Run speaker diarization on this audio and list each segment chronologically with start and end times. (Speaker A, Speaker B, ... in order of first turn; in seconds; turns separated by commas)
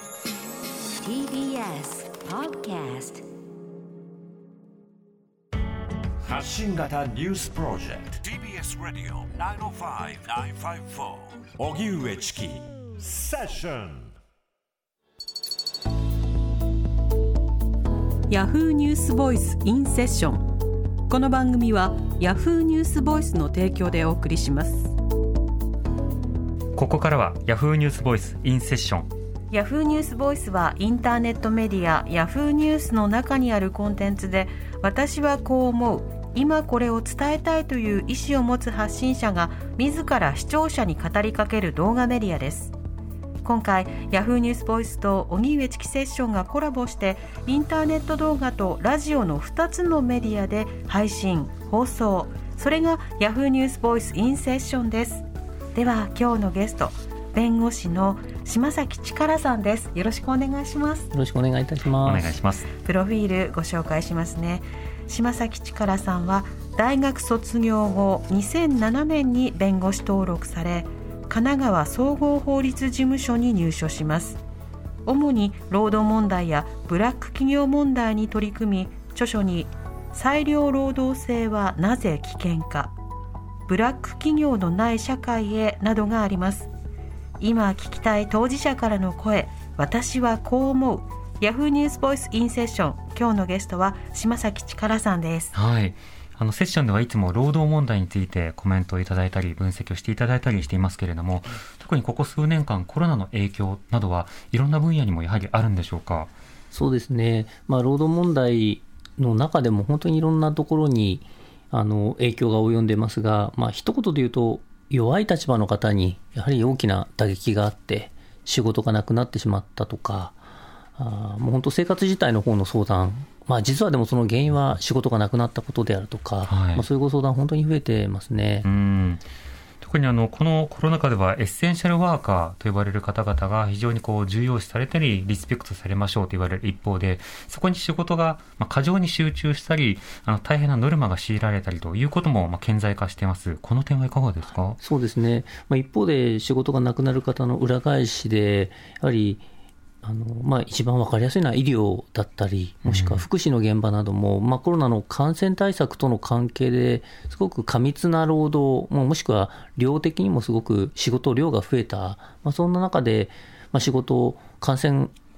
Speaker A: 1.0-3.2, Speaker B: 6.2-14.1, Speaker C: 18.3-20.5, Speaker C: 21.1-24.9, Speaker D: 26.7-29.1, Speaker C: 29.5-42.7, Speaker C: 43.4-61.1, Speaker E: 61.1-62.4, Speaker D: 62.0-62.7, Speaker C: 62.8-74.4, Speaker C: 75.0-82.9, Speaker C: 83.7-86.7, Speaker C: 87.4-95.5, Speaker D: 95.5-106.3, Speaker E: 106.7-120.4, Speaker E: 121.0-128.7, Speaker D: 126.5-126.8, Speaker D: 128.6-129.3, Speaker D: 129.8-144.8, Speaker E: 144.7-149.4, Speaker E: 150.0-165.1, Speaker D: 152.8-153.2